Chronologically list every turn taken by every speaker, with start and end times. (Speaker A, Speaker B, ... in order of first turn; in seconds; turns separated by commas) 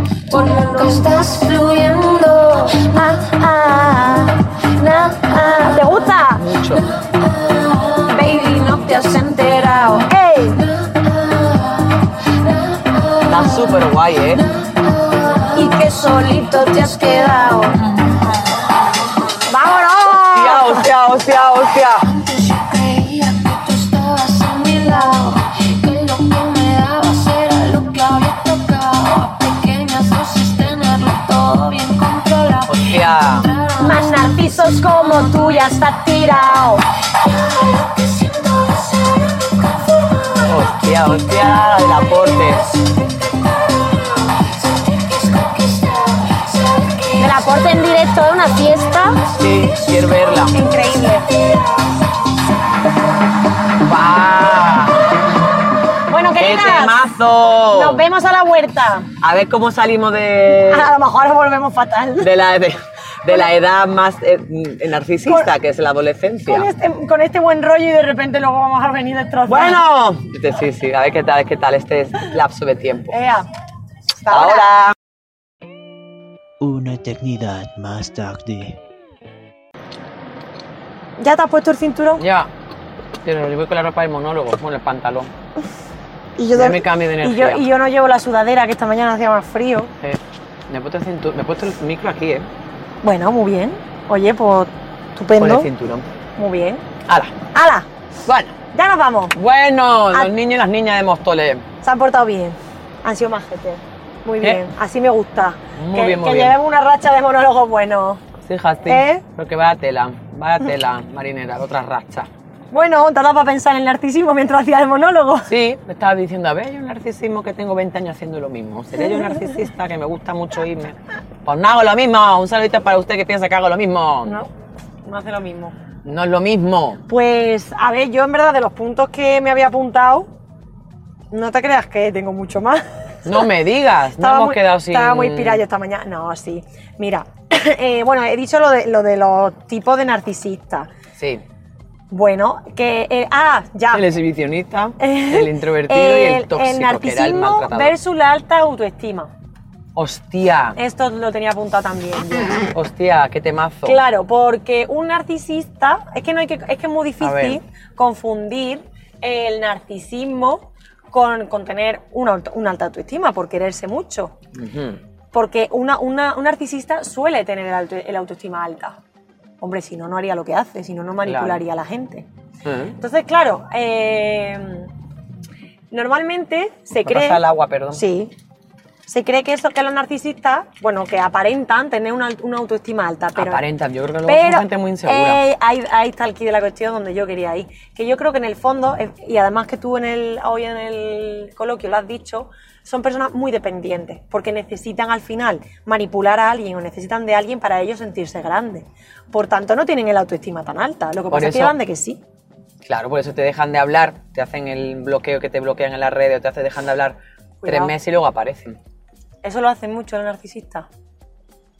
Speaker A: 0.3-6.1, Speaker B: 3.2-3.6, Speaker B: 5.5-6.4, Speaker C: 6.4-6.9, Speaker A: 6.7-18.3, Speaker B: 10.1-10.6, Speaker C: 13.3-14.4, Speaker B: 15.6-15.9, Speaker B: 19.5-20.9, Speaker C: 20.3-22.1, Speaker A: 22.0-35.7, Speaker C: 32.7-33.5, Speaker B: 33.8-36.8, Speaker A: 38.0-38.8, Speaker C: 40.4-42.7, Speaker A: 45.0-47.2, Speaker B: 47.2-49.2, Speaker C: 49.4-50.6, Speaker B: 50.5-51.3, Speaker C: 53.8-55.0, Speaker B: 56.1-57.0, Speaker C: 56.4-58.0, Speaker B: 57.7-59.1, Speaker C: 59.2-60.9, Speaker B: 60.7-62.3, Speaker C: 62.2-66.7, Speaker B: 65.3-65.5, Speaker B: 66.5-69.8, Speaker C: 69.5-73.2, Speaker B: 73.1-73.5, Speaker B: 74.2-74.8, Speaker C: 74.3-75.0, Speaker D: 76.6-78.8, Speaker B: 81.2-82.2, Speaker C: 82.2-82.5, Speaker C: 83.2-85.3, Speaker B: 86.4-89.9, Speaker C: 86.5-87.7, Speaker C: 90.0-92.5, Speaker B: 93.0-95.7, Speaker C: 95.3-96.1, Speaker B: 96.4-96.8, Speaker C: 97.1-97.4, Speaker B: 97.5-97.9, Speaker C: 98.3-98.6, Speaker B: 98.7-99.4, Speaker C: 99.3-101.7, Speaker B: 101.8-108.3, Speaker C: 105.8-106.6, Speaker C: 108.4-112.3, Speaker B: 108.8-109.2, Speaker B: 112.7-115.5, Speaker C: 115.5-124.4, Speaker B: 124.2-124.5, Speaker B: 125.0-125.8, Speaker C: 126.0-127.0, Speaker B: 127.1-130.3, Speaker B: 131.3-133.3, Speaker C: 133.2-135.7, Speaker B: 134.2-140.9, Speaker C: 141.2-141.4, Speaker B: 142.1-144.1, Speaker C: 143.9-148.0, Speaker B: 145.0-149.3, Speaker C: 149.9-150.8, Speaker B: 150.8-152.7, Speaker C: 152.7-154.0, Speaker B: 153.8-164.3, Speaker C: 157.2-157.6, Speaker C: 164.5-165.0, Speaker B: 165.3-169.0, Speaker B: 169.6-172.3, Speaker C: 171.2-171.6, Speaker C: 172.7-173.0, Speaker B: 173.0-174.9, Speaker B: 175.9-178.3, Speaker C: 177.0-178.1, Speaker B: 179.1-183.7, Speaker C: 183.3-185.4, Speaker B: 184.3-202.2, Speaker C: 201.3-201.8, Speaker C: 202.8-208.8, Speaker B: 207.6-207.9, Speaker B: 209.4-210.9